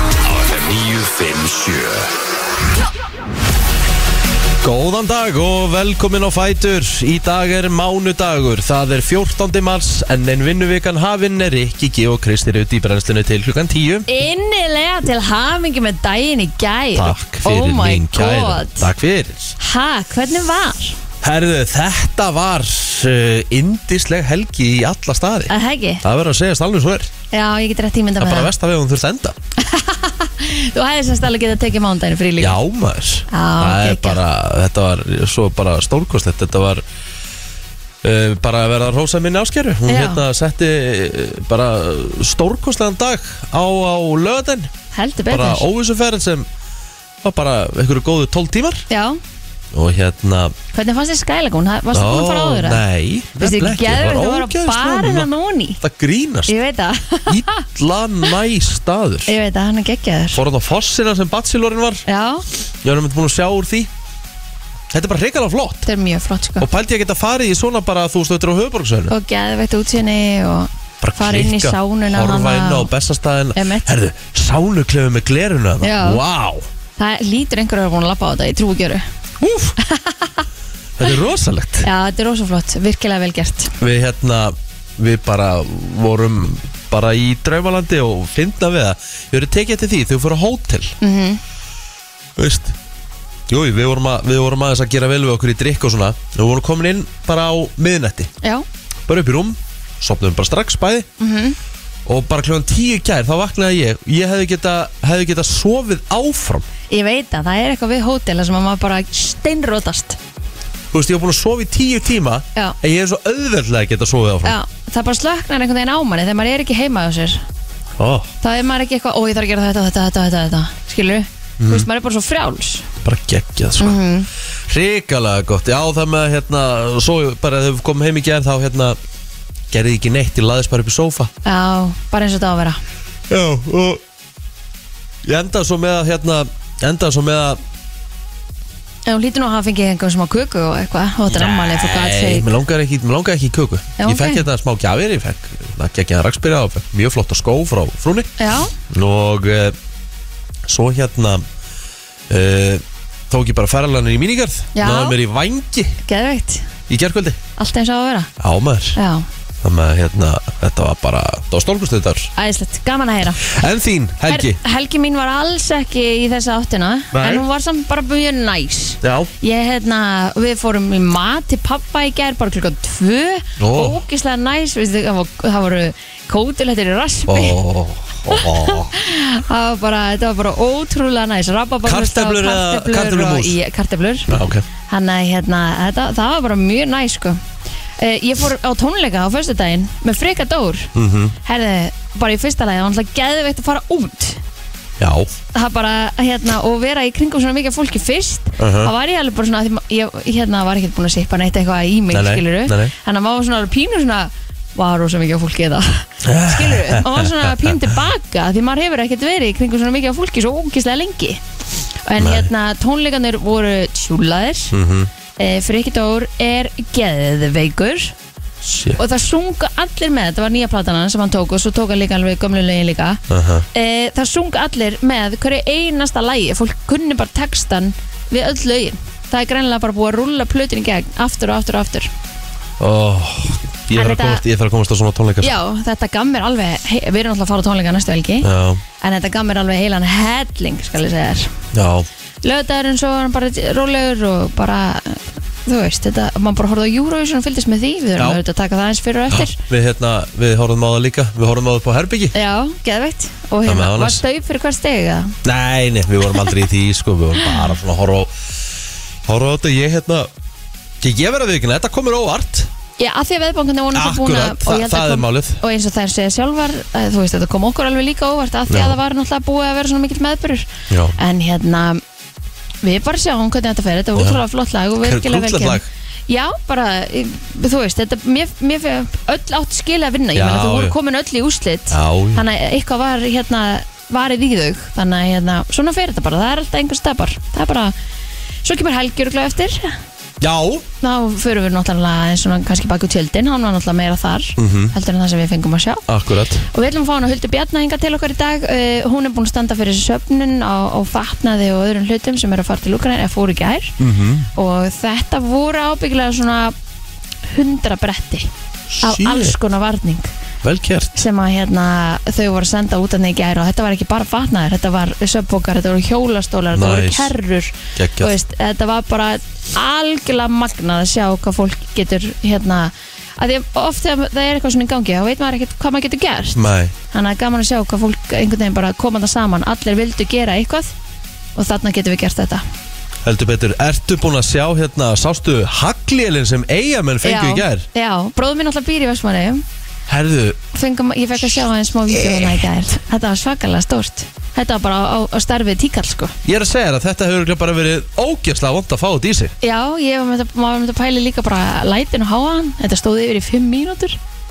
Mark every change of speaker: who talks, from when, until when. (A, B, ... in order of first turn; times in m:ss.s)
0:00.2-0:02.1 A
0:04.6-0:14.1 A
0:14.1-0:18.9 B
0:17.0-0:19.6 A
0:19.6-0:21.0 B
0:21.2-0:27.1 A
0:25.5-0:26.0 B
0:27.3-0:28.5 B
0:28.2-0:29.4 A
0:29.6-0:32.6 B
0:32.4-0:36.8 A
0:33.3-0:34.2 B
0:38.0-0:44.7 A
0:39.9-0:40.2 B
0:44.9-0:45.7 B
0:45.3-0:46.5 A
0:47.2-0:48.9 A
0:48.9-0:49.2 B
0:49.7-0:50.6 A
0:50.7-0:52.8 B
0:51.9-0:55.3 A
0:53.4-0:55.8 B
0:55.8-0:56.6 A
0:56.5-0:57.6 B
0:57.3-0:59.4 A
0:59.3-1:00.4 B
1:00.3-1:02.0 A
1:02.1-1:02.4 B
1:02.8-1:03.9 A
1:04.9-1:05.9 A
1:05.9-1:06.7 B
1:06.6-1:09.1 A
1:09.1-1:12.9 B
1:11.0-1:16.7 A
1:13.6-1:14.0 B
1:15.8-1:16.2 B
1:17.0-1:19.0 B
1:19.4-1:19.8 A
1:19.8-1:20.3 B
1:21.0-1:21.9 A
1:21.8-1:23.7 B
1:23.8-1:31.0 A
1:31.0-1:31.4 B
1:32.4-1:32.8 A
1:33.5-1:38.3 A
1:39.1-1:41.1 A
1:41.2-1:41.6 B
1:42.1-1:46.7 A
1:46.9-1:50.2 B
1:50.9-1:54.6 A
1:54.4-1:57.4 B
1:58.0-1:58.3 A
1:58.4-2:02.9 B
2:01.6-2:01.9 A
2:03.0-2:04.0 A
2:03.8-2:04.3 B
2:04.7-2:09.0 A
2:09.7-2:11.3 A
2:11.4-2:12.8 B
2:13.3-2:14.0 A
2:15.2-2:17.6 A
2:19.1-2:22.5 B
2:21.3-2:28.3 A
2:24.0-2:24.5 B
2:28.4-2:28.7 B
2:28.9-2:29.8 A
2:30.7-2:31.4 A
2:32.3-2:36.0 A
2:34.7-2:35.2 B
2:36.0-2:36.7 B
2:36.9-2:37.4 A
2:37.6-2:38.3 B
2:38.4-2:39.0 A
2:39.0-2:39.2 B
2:39.6-2:42.3 A
2:42.4-2:43.4 B
2:43.4-2:44.6 A
2:44.3-2:57.6 B
2:47.1-2:47.5 A
2:49.0-2:49.3 A
2:53.6-2:54.0 A
2:57.3-2:58.9 A
2:58.3-3:04.3 B
3:01.8-3:03.6 A
3:04.3-3:04.6 A
3:04.9-3:07.4 B
3:08.0-3:10.9 B
3:11.0-3:11.4 A
3:11.4-3:14.4 B
3:15.0-3:15.3 A
3:15.5-3:31.4 B
3:18.6-3:18.9 A
3:22.1-3:22.9 A
3:26.2-3:27.9 A
3:32.0-3:34.8 B
3:32.2-3:32.5 A
3:34.7-3:35.1 A
3:35.4-3:38.1 B
3:38.6-3:39.0 A
3:39.0-3:43.2 B
3:43.3-3:43.7 A
3:43.7-3:52.1 B
3:52.8-3:55.5 A
3:53.9-3:54.4 B
3:55.4-3:58.5 B
3:58.4-3:58.8 A
3:59.0-4:01.5 B
4:01.7-4:02.1 A
4:02.4-4:09.6 B
4:09.3-4:12.4 A
4:12.3-4:15.4 B
4:13.6-4:14.2 A
4:15.4-4:18.3 A
4:16.3-4:16.6 B
4:19.3-4:20.3 A
4:21.0-4:22.7 A
4:23.0-4:32.0 B
4:23.9-4:25.6 A
4:28.7-4:29.0 A
4:30.9-4:31.2 A
4:32.8-4:48.0 B
4:34.2-4:34.4 A
4:35.0-4:35.9 A
4:40.3-4:41.0 A
4:41.9-4:42.4 A
4:48.6-4:50.0 B
4:50.4-4:50.9 A
4:51.0-4:56.0 B
4:54.6-4:55.0 A
4:56.1-4:56.6 A
4:56.7-5:04.0 B
5:04.0-5:04.5 A
5:04.6-5:06.8 B
5:07.5-5:08.5 B
5:08.9-5:09.6 A
5:09.0-5:10.3 B
5:10.6-5:11.2 A
5:11.2-5:26.6 B
5:16.7-5:17.3 A
5:18.0-5:18.4 A
5:26.6-5:26.9 A
5:27.1-5:30.9 B
5:31.6-5:32.6 B
5:33.2-5:37.9 A
5:37.2-5:39.6 B
5:40.1-5:40.6 A
5:40.7-5:46.4 B
5:42.1-5:42.6 A
5:46.4-5:49.5 A
5:49.6-5:54.2 B